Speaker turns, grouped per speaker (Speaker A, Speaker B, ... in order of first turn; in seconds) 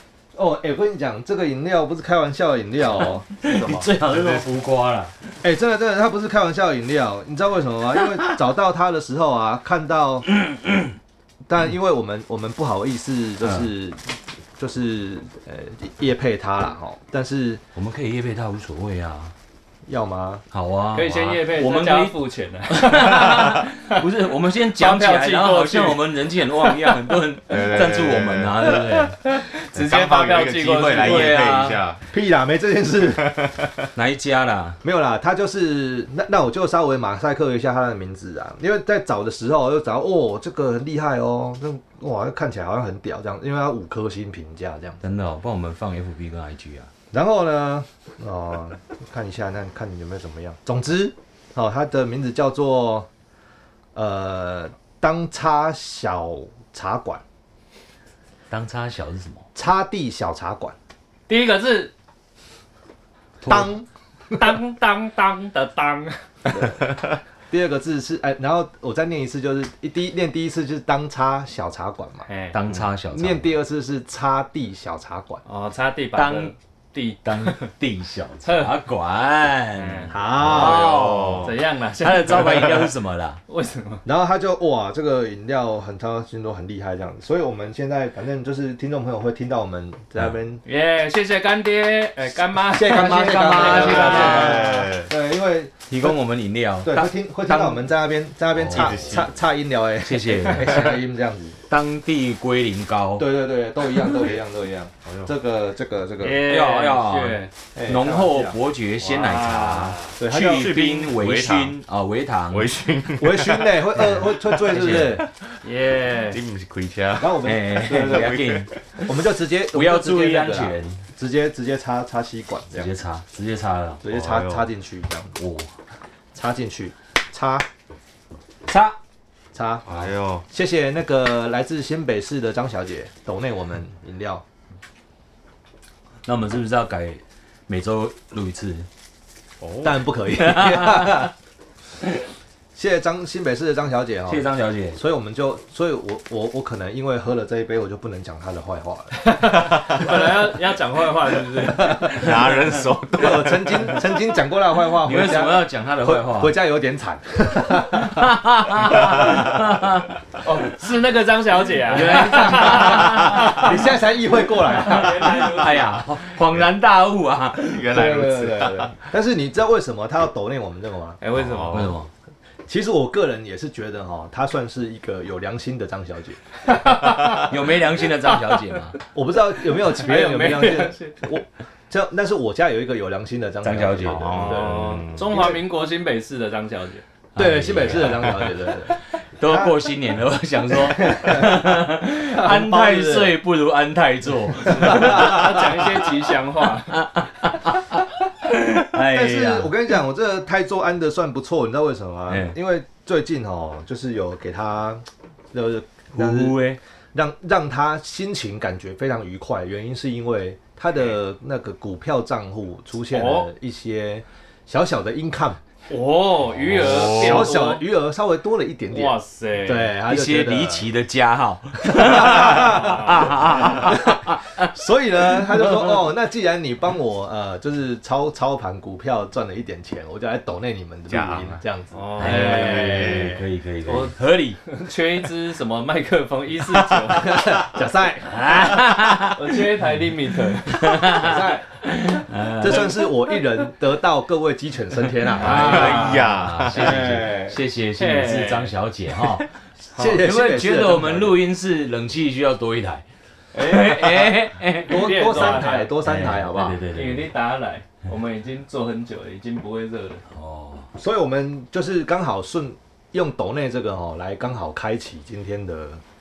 Speaker A: 0.3-4.4, 5.4-10.3, 11.5-14.0, 14.6-17.6, 19.9-20.4, 32.1-33.4, 34.8-45.0, 47.1-53.1, 54.0-57.2, 59.5-60.8, 63.4-64.6, 66.5-66.8, 67.5-72.3, 73.1-75.4, 80.1-81.0, 84.0-90.6, 92.7-96.2, 96.8-101.6, 103.2-106.5, 107.8-108.6, 110.2-110.8, 113.2-115.3, 117.2-118.5, 119.0-122.9, 124.0-125.4, 126.3-127.7, 129.5-129.9, 130.5-134.4, 139.8-141.3, 142.8-150.2, 151.8-152.1, 153.2-158.4, 161.9-165.5, 167.9-171.2, 172.7-176.8, 179.1-185.6, 187.4-189.8, 190.8-193.4, 194.7-195.6, 199.0-206.6, 207.1-215.6, 216.8-220.9, 221.8-233.4, 237.1-238.9, 241.1-241.7, 242.6-247.6, 249.9-251.4, 254.9-256.8, 261.0-266.0
Speaker B: 3.0-5.1, 13.4-13.7, 17.8-19.3, 20.5-22.2, 22.7-29.2, 30.9-31.8, 34.0-34.8, 45.0-46.9, 58.5-59.5, 63.4-63.7, 72.5-73.5, 76.1-76.5, 77.2-83.4, 92.8-94.9, 95.9-97.9, 98.6-99.2, 100.0-101.0, 101.7-103.3, 106.4-112.7, 114.6-115.2, 117.4-118.7, 119.7-121.0, 122.7-124.0, 125.4-125.7, 128.7-129.0, 136.2-138.9, 140.4-141.3, 144.3-145.0, 155.0-156.5, 158.0-160.1, 161.9-163.8, 164.8-168.0, 171.6-172.1, 177.2-179.0, 183.6-184.5, 187.4-196.0, 196.9-199.7, 202.3-202.6, 206.2-206.8, 220.1-224.6, 225.5-225.9, 232.2-234.6, 238.2-239.6, 240.7-243.1, 245.3-253.0, 253.6-257.3, 260.3-260.9
Speaker C: 20.9-24.1, 24.8-27.2, 28.6-31.4, 61.3-61.9, 64.4-66.2, 72.3-72.6, 75.5-77.7, 78.4-78.8, 79.7-80.2, 81.4-83.0, 83.5-84.0, 90.7-94.7, 106.2-107.5, 109.0-110.2, 115.6-116.4, 149.2-152.8, 160.4-164.0, 164.5-166.1, 171.2-171.9, 176.7-178.8, 179.8-181.2, 184.5-187.0, 194.8-197.1, 213.1-213.5, 215.9-217.8, 218.9-219.9, 231.9-233.3, 233.9-237.6, 239.3-241.4, 245.7-246.0, 248.0-248.7, 253.6-254.3, 254.8-255.9, 256.9-260.2
Speaker D: 27.5-28.7, 29.7-32.0, 33.2-33.9, 80.5-81.6, 94.1-95.1, 98.6-99.3, 105.0-105.3, 110.4-111.8, 112.5-115.0, 116.2-118.7, 124.1-124.7, 129.9-130.5, 139.6-140.0, 152.1-153.9, 158.9-159.8, 167.6-169.1, 171.3-172.0, 184.0-185.3, 216.7-217.4, 231.1-231.6, 245.4-247.2